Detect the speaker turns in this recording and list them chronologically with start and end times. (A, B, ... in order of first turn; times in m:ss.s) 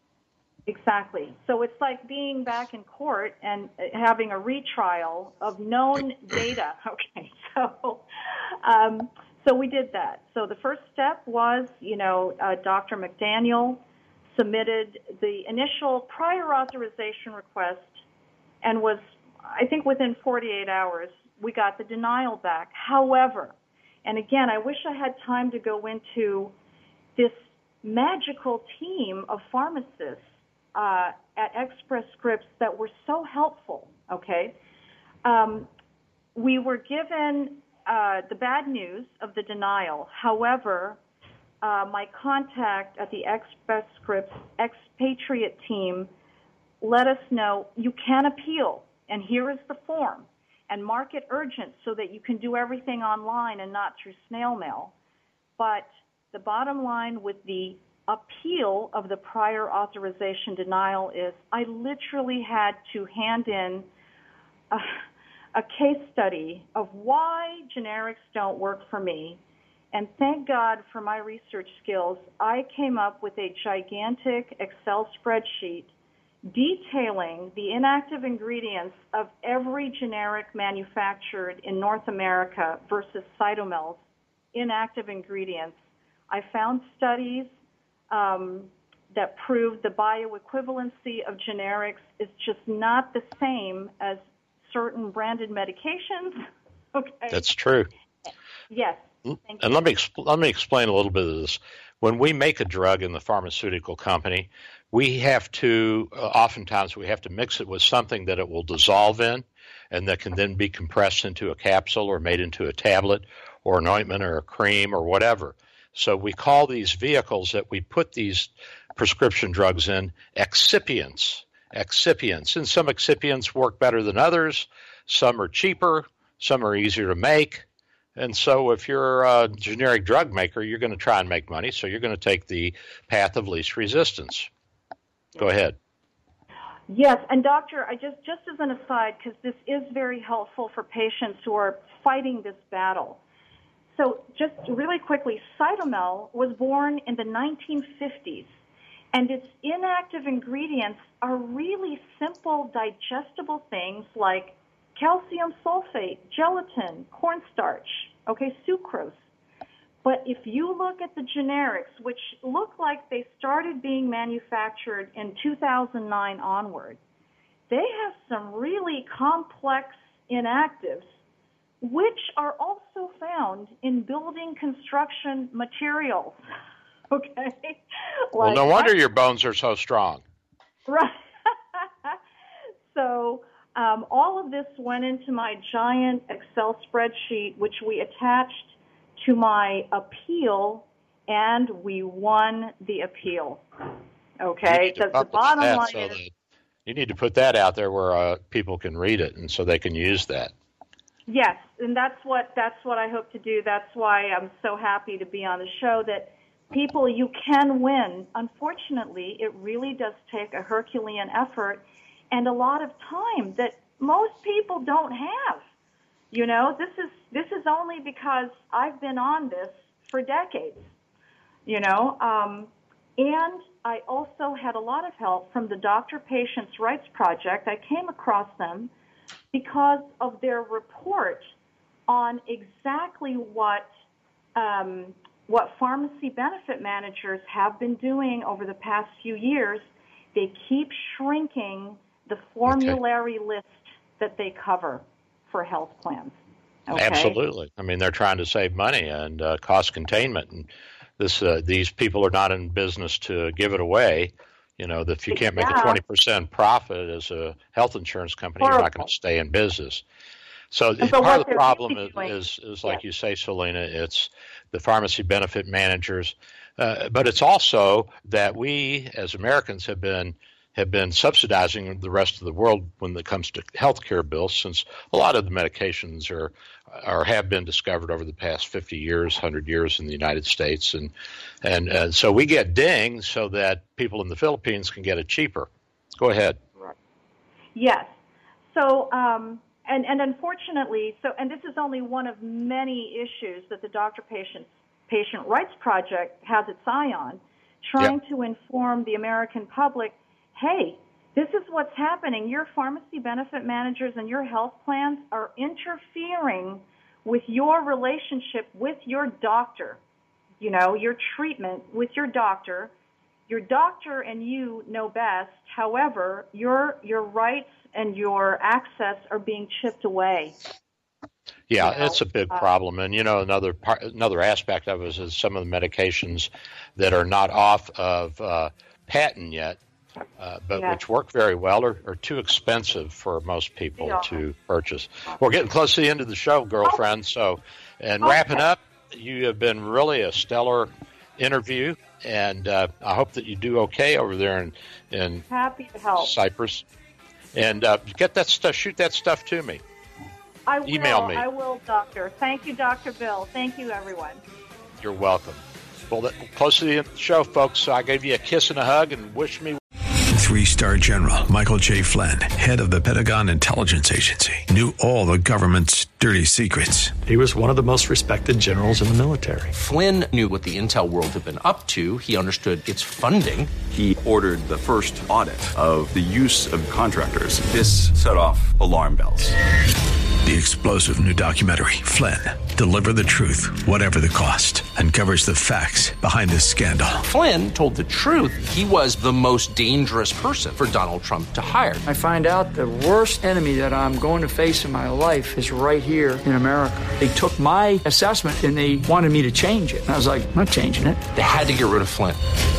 0:00.7-0:08.0 A
0:08.6-0:18.0 A
0:18.6-0:26.5 A
0:27.2-0:34.5 A
0:35.2-0:35.7 A
0:36.3-0:41.0 A
0:41.6-0:46.1 A
0:46.8-0:54.9 A
0:55.6-1:03.8 A
1:04.7-1:05.0 A
1:05.5-1:09.4 A
1:09.9-1:15.9 A
1:16.4-1:24.0 A
1:24.5-1:25.8 A
1:26.3-1:27.5 A
1:28.1-1:37.4 A
1:37.3-1:37.9 B
1:38.7-1:39.6 A
1:39.2-2:07.6 B
2:08.2-2:14.5 B
2:15.4-2:15.8 B
2:16.9-2:23.2 A
2:23.9-2:28.5 A
2:29.1-2:39.2 A
2:40.0-2:47.0 A
2:47.7-2:51.1 A
2:51.8-2:56.4 A
2:57.1-2:57.8 A
2:58.3-2:58.9 A
2:58.4-3:00.2 B
3:00.9-3:02.2 A
3:02.9-3:13.6 A
3:14.4-3:16.2 A
3:14.6-3:16.3 B
3:16.8-3:20.5 B
3:21.3-3:35.6 A
3:36.3-3:40.9 A
3:41.6-3:48.9 A
3:49.5-3:51.5 A
3:52.1-3:53.9 A
3:54.6-4:06.4 A
4:02.7-4:03.0 B
4:06.9-4:07.4 A
4:06.9-4:20.0 B
4:15.3-4:16.0 A
4:18.6-4:19.1 A
4:20.7-4:41.1 B
4:21.0-4:22.3 A
4:41.6-4:46.6 B
4:47.7-4:48.1 A
4:48.7-5:10.0 A
5:10.6-5:12.9 A
5:13.5-5:20.6 A
5:21.7-5:29.8 B
5:21.8-5:22.7 A
5:30.4-5:45.4 B
5:34.0-5:34.4 A
5:38.2-5:38.6 A
5:45.5-5:46.3 A
5:46.2-5:46.8 B
5:47.5-5:49.8 B
5:50.7-5:54.4 A
5:50.8-5:51.4 B
5:55.0-5:59.8 B
6:00.3-6:07.2 C
6:07.2-6:09.7 D
6:09.7-6:13.7 E
6:13.9-6:19.6 F
6:20.4-6:27.2 C
6:27.2-6:32.0 E
6:32.0-6:41.2 G
6:41.3-6:42.4 E